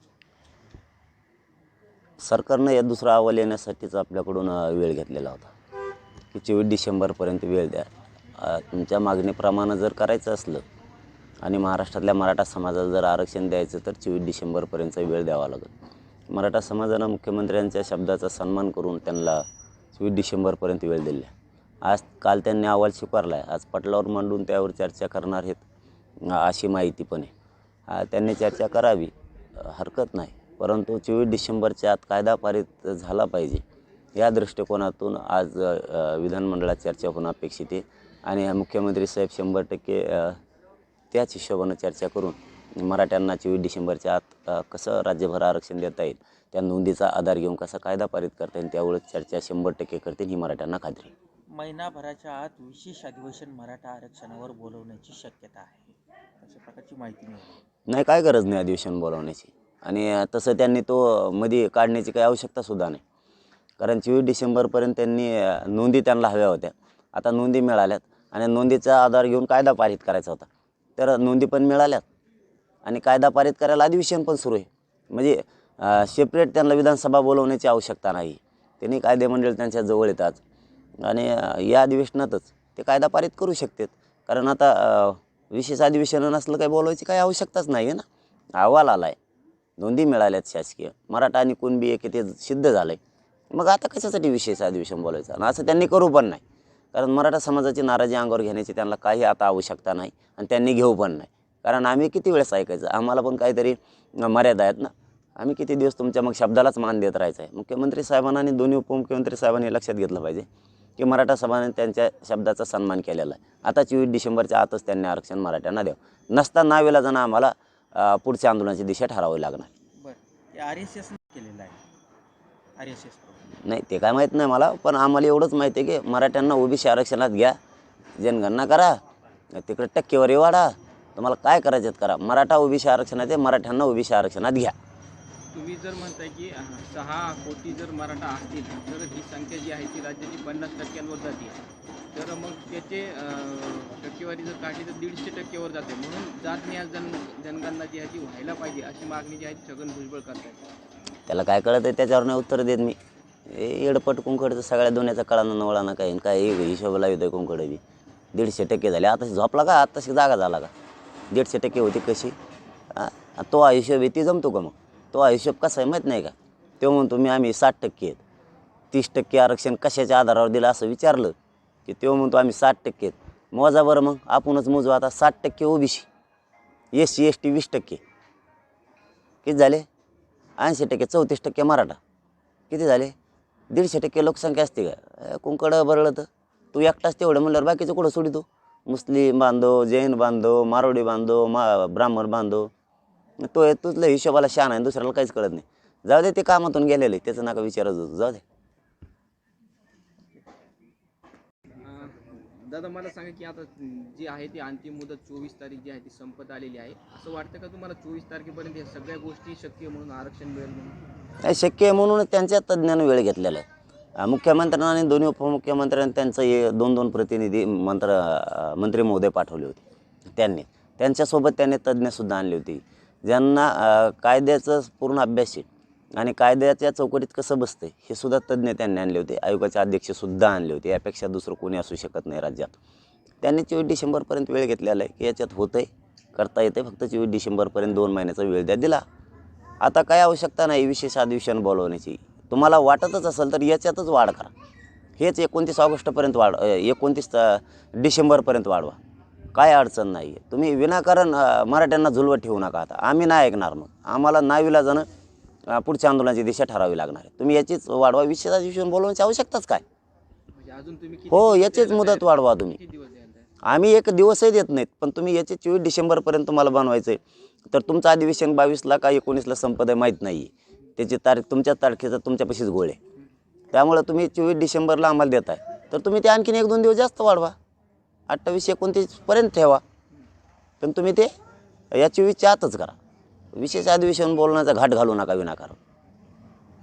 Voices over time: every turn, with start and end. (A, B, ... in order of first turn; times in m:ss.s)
0:02.2-0:05.5 A
0:06.3-0:10.6 A
0:11.4-0:15.7 A
0:16.3-0:19.4 A
0:19.9-0:21.3 A
0:21.8-0:25.6 A
0:26.2-0:27.3 A
0:27.9-0:33.6 A
0:34.2-0:40.4 A
0:41.1-0:51.1 A
0:51.5-0:57.6 B
0:57.9-1:03.0 A
1:03.8-1:10.4 A
1:11.0-1:12.0 A
1:12.8-1:20.4 A
1:21.0-1:28.0 A
1:28.6-1:29.2 A
1:29.8-1:33.0 A
1:33.5-1:36.4 A
1:36.9-1:50.4 A
1:51.0-1:59.7 A
2:00.0-2:01.8 B
2:02.8-2:03.5 B
2:03.6-2:07.6 A
2:08.2-2:09.0 A
2:09.5-2:14.8 A
2:15.5-2:21.6 C
2:22.1-2:30.6 C
2:31.3-2:33.0 A
2:33.5-2:37.8 A
2:38.3-2:40.7 A
2:41.3-2:42.4 A
2:42.9-2:48.2 A
2:48.9-2:51.3 A
2:51.8-2:56.1 A
2:56.9-2:58.0 A
2:59.4-2:59.9 A
3:00.6-3:02.0 A
3:02.7-3:03.1 A
3:03.7-3:12.7 A
3:13.4-3:18.4 A
3:21.8-3:31.0 C
3:31.4-3:33.6 A
3:34.2-3:39.8 A
3:40.4-3:52.7 A
3:53.4-3:59.0 A
3:59.8-4:04.5 A
4:05.2-4:09.0 A
4:09.5-4:15.1 A
4:15.7-4:19.8 A
4:20.5-4:23.5 C
4:21.3-4:22.8 A
4:23.6-4:33.0 A
4:33.7-4:37.5 A
4:38.3-4:39.8 A
4:40.8-4:41.3 A
4:41.9-4:43.0 A
4:43.5-4:45.8 A